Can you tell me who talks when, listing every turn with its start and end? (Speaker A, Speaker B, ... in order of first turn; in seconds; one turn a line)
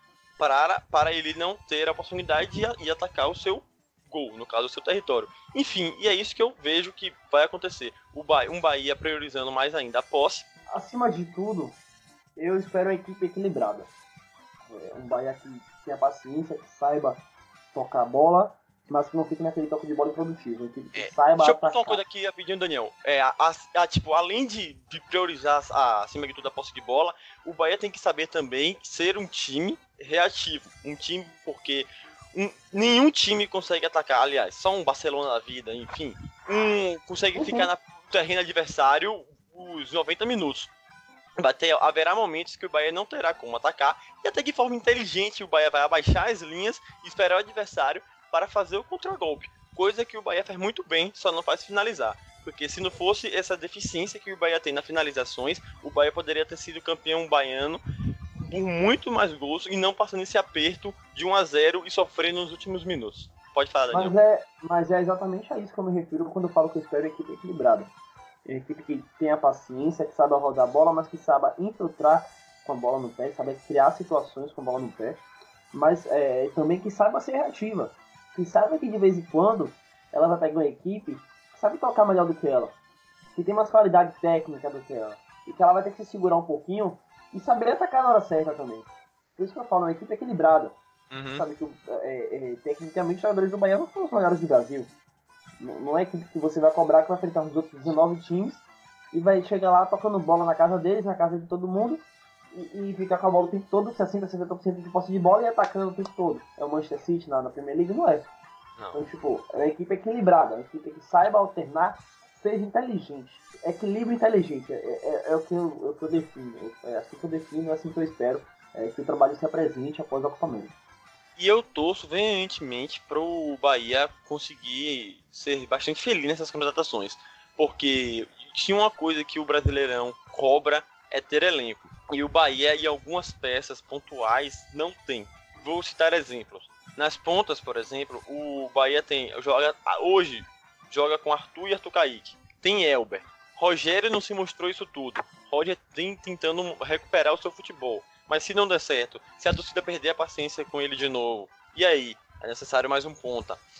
Speaker A: 0.4-10.5
Speaker B: 10.7-11.8
Speaker B: 12.4-13.9
Speaker B: 14.7-17.2
Speaker B: 17.7-22.0
Speaker A: 20.9-40.7
Speaker B: 37.3-37.7
Speaker A: 41.4-57.8
Speaker A: 58.5-64.1
Speaker B: 63.9-67.9
Speaker B: 68.5-75.2
Speaker B: 75.7-82.7
Speaker B: 83.3-90.8
Speaker A: 91.1-91.4
Speaker B: 91.3-94.9
Speaker B: 95.6-108.3
Speaker B: 108.9-120.7
Speaker A: 121.4-153.6